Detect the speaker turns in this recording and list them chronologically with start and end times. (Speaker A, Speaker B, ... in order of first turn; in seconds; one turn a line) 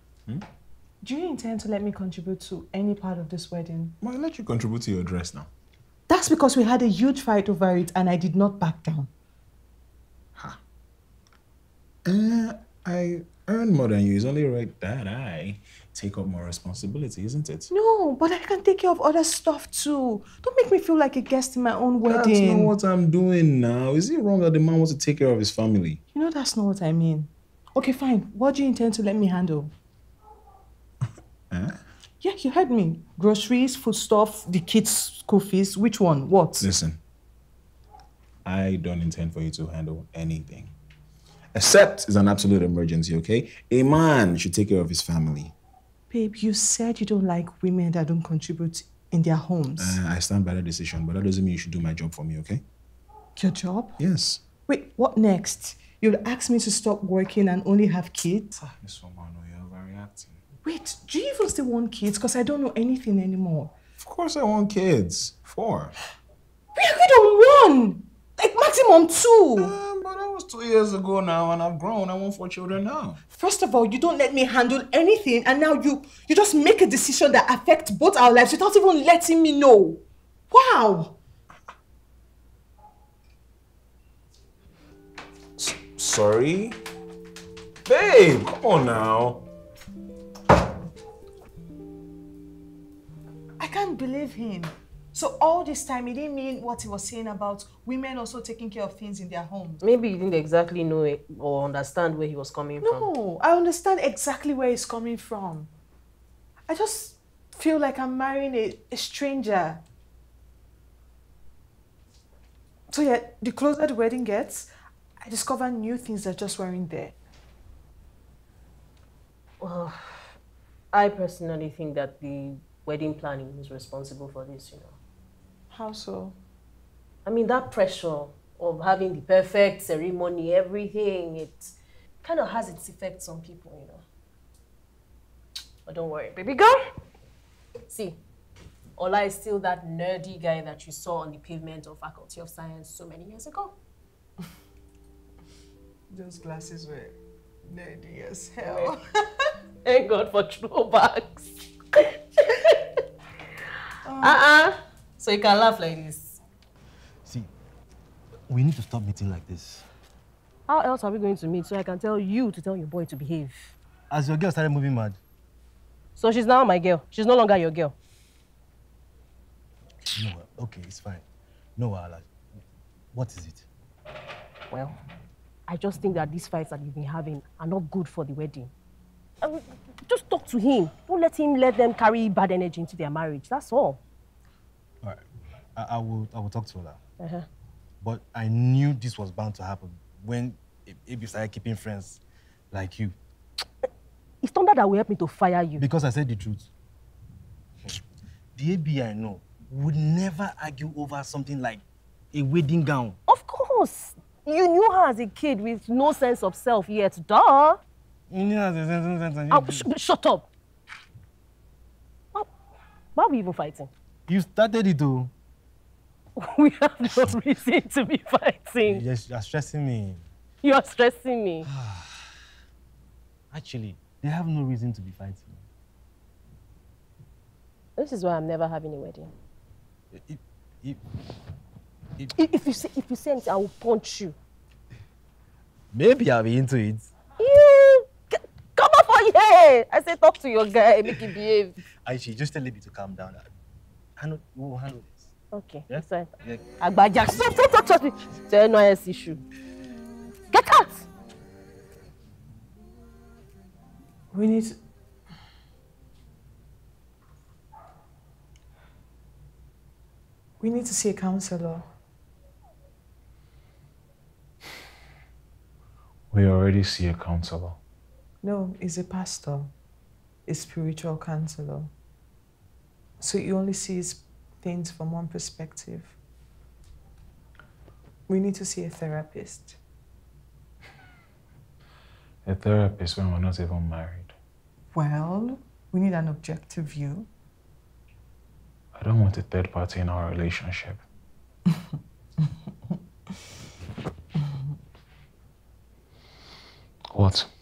Speaker A: 1.0-4.0
Speaker B: 4.0-5.5
Speaker A: 6.1-9.1
Speaker B: 12.1-17.7
Speaker A: 17.7-22.7
Speaker B: 22.0-26.0
Speaker A: 26.1-29.7
Speaker A: 32.2-36.7
Speaker B: 36.6-37.0
Speaker B: 38.5-40.7
Speaker B: 41.5-45.5
Speaker A: 46.1-50.0
Speaker B: 49.8-52.6
Speaker A: 53.4-54.0
Speaker B: 54.0-54.4
Speaker A: 54.7-58.5
Speaker B: 58.5-60.4
Speaker A: 60.6-63.7
Speaker B: 64.0-66.0
Speaker A: 66.8-69.7
Speaker B: 69.6-73.2
Speaker A: 73.3-81.2
Speaker B: 85.6-86.8
Speaker B: 87.9-89.4
Speaker A: 93.6-99.8
Speaker C: 99.8-103.1
Speaker A: 102.8-105.7
Speaker A: 106.7-109.8
Speaker A: 112.9-117.2
Speaker C: 119.6-120.4
Speaker C: 120.9-125.0
Speaker A: 125.7-126.4
Speaker C: 127.3-134.0
Speaker C: 135.9-136.8
Speaker C: 137.9-138.2
Speaker C: 139.0-143.8
Speaker A: 146.1-149.0
Speaker C: 148.6-148.9
Speaker C: 149.8-152.8
Speaker A: 154.0-154.4
Speaker C: 154.2-156.4
Speaker D: 157.3-157.5
Speaker D: 158.5-159.8
Speaker C: 160.7-163.6
Speaker D: 164.1-165.2
Speaker C: 166.2-167.9
Speaker D: 170.1-171.2
Speaker D: 171.8-172.6
Speaker D: 173.1-173.7
Speaker C: 175.7-178.7
Speaker C: 179.4-184.0
Speaker D: 185.8-187.0
Speaker C: 187.2-187.5
Speaker D: 188.0-192.2
Speaker D: 192.7-193.2
Speaker C: 194.4-195.8
Speaker D: 195.8-196.7
Speaker D: 198.6-203.2
Speaker C: 203.3-207.8
Speaker D: 208.3-209.9
Speaker C: 209.5-210.5
Speaker C: 213.2-213.9
Speaker D: 214.3-215.3
Speaker C: 216.4-219.0
Speaker D: 218.8-220.3
Speaker C: 220.6-221.7
Speaker D: 221.6-222.5
Speaker D: 223.5-225.6
Speaker C: 228.0-229.3
Speaker D: 230.1-231.0
Speaker C: 232.3-234.3
Speaker D: 235.9-237.1
Speaker C: 237.4-241.8
Speaker D: 242.0-243.5
Speaker D: 244.2-245.3
Speaker C: 245.5-249.4
Speaker D: 245.9-246.8
Speaker C: 250.5-251.0
Speaker A: 254.3-254.8
Speaker A: 260.6-261.9
Speaker B: 266.3-267.8
Speaker A: 268.4-269.7
Speaker A: 270.5-271.9
Speaker A: 273.2-276.2
Speaker A: 278.3-279.8
Speaker B: 282.4-284.3
Speaker A: 284.9-287.3
Speaker B: 288.9-291.0
Speaker B: 297.1-297.5